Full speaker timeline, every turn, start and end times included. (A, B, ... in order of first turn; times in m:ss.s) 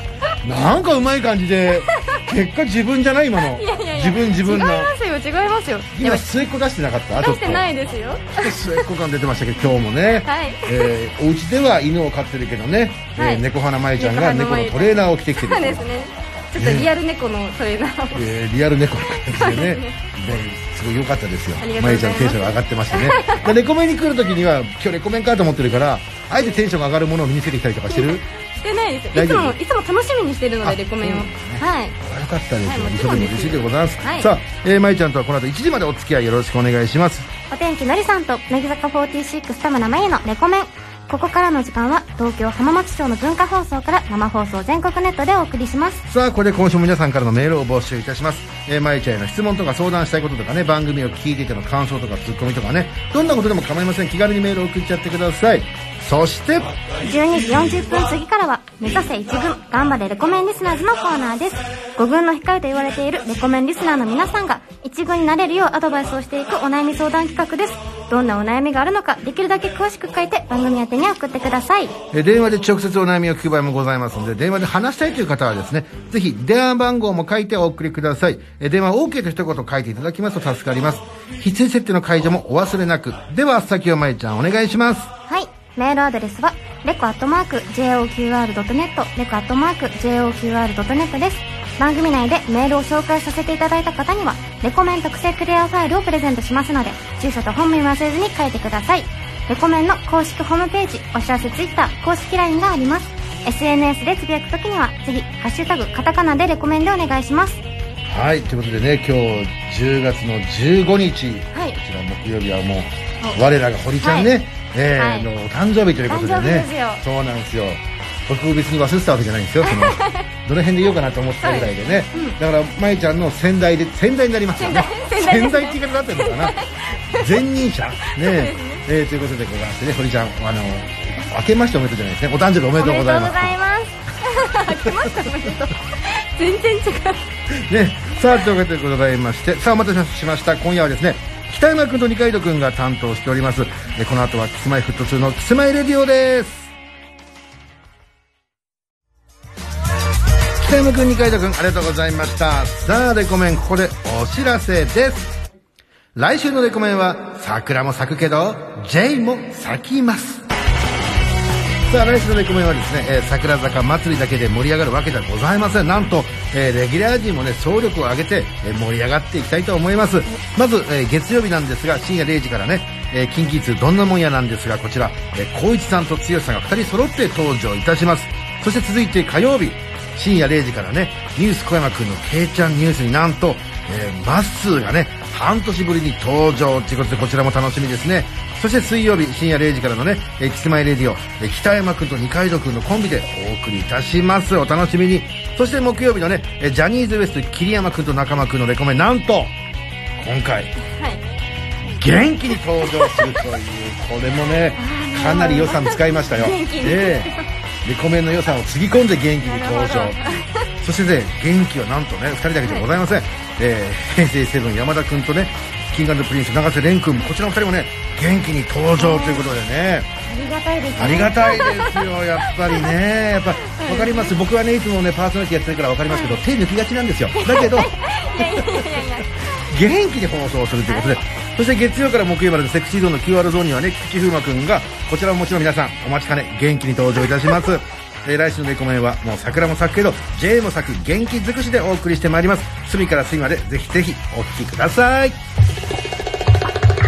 0:00.4-0:04.9 A
0:03.5-0:06.2 B
0:05.9-0:07.7 A
0:07.2-0:08.8 B
0:08.3-0:15.8 A
0:09.6-0:10.9 B
0:13.2-0:13.4 B
0:14.0-0:18.2 B
0:16.6-0:16.9 A
0:18.1-0:28.2 A
0:19.3-0:20.0 B
0:21.6-0:23.4 B
0:27.9-0:32.0 B
0:29.1-0:29.6 A
0:30.6-0:37.3 A
0:32.6-0:34.3 B
0:37.5-0:46.0 C
0:46.0-0:56.8 A
0:57.0-1:11.9 C
1:12.1-1:25.1 A
1:25.3-1:47.6 C
1:48.0-2:06.6 A
1:54.0-1:54.3 B
1:56.1-1:57.0 B
1:59.6-2:00.2 B
2:01.4-2:02.4 B
2:04.6-2:07.3 B
2:07.1-2:13.6 A
2:08.1-2:08.8 B
2:12.8-2:17.2 B
2:14.7-2:15.2 A
2:17.5-2:26.7 A
2:30.6-2:35.4 A
2:36.1-2:40.4 A
2:41.9-3:19.5 A
3:20.2-3:20.7 A
3:20.9-3:21.2 B
3:21.9-3:27.3 A
3:22.9-3:23.2 B
3:24.8-3:27.4 B
3:27.8-3:40.1 A
3:29.4-3:30.6 B
3:39.0-3:39.5 B
3:40.3-3:42.9 B
3:41.0-4:05.4 A
3:43.6-3:44.3 B
3:46.1-3:46.4 B
3:47.4-3:49.4 B
3:50.9-3:51.2 B